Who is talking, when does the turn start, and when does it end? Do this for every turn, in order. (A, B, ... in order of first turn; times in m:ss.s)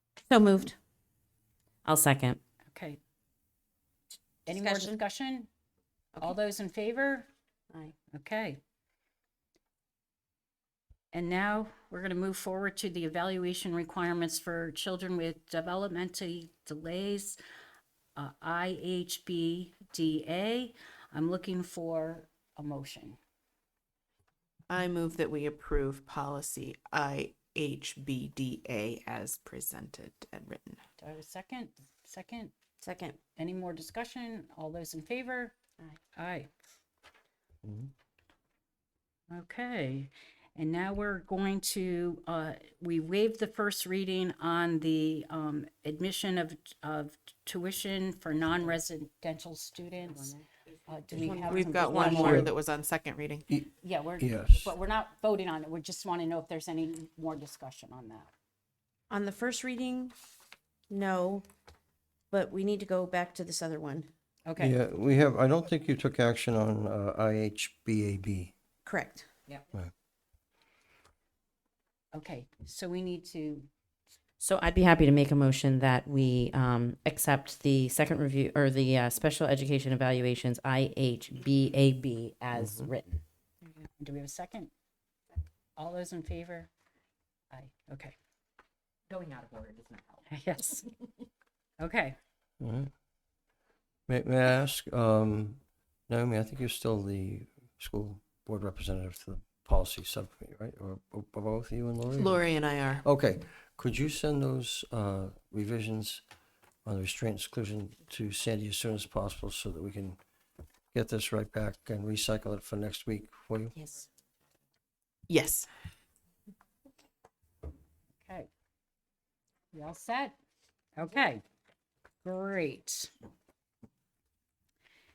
0:00.3-0:00.8 A
0:01.8-0:02.4 B
0:02.7-0:03.0 C
0:04.5-0:05.0 A
0:04.5-0:05.5 C
0:06.2-0:07.3 C
0:08.1-0:08.6 C
0:11.1-0:17.4 C
0:18.2-0:23.2 C
0:24.7-0:30.8 D
0:31.0-0:32.5 C
0:32.8-0:33.2 A
0:33.4-0:35.6 C
0:36.1-0:36.5 C
0:39.3-0:50.4 C
0:50.9-0:52.5 C
0:51.4-0:53.5 D
0:51.9-0:52.3 A
0:52.2-0:52.5 E
0:53.5-0:54.7 E
0:53.8-0:58.3 C
0:59.1-1:00.1 A
1:00.9-1:01.4 A
1:02.3-1:04.1 A
1:04.4-1:04.8 C
1:04.6-1:08.5 E
1:08.8-1:09.3 A
1:12.1-1:13.7 C
1:14.4-1:23.2 B
1:22.5-1:22.9 E
1:24.0-1:24.7 C
1:25.8-1:26.7 C
1:27.5-1:28.2 C
1:30.3-1:30.8 C
1:31.8-1:32.2 C
1:32.6-1:32.9 E
1:34.1-1:46.2 E
1:42.2-1:43.0 D
1:46.8-1:50.2 E
1:50.9-1:53.8 E
1:55.3-1:55.7 D
1:58.2-1:58.5 C
1:59.7-2:00.4 C
2:01.0-2:01.4 C
2:02.2-2:03.1 C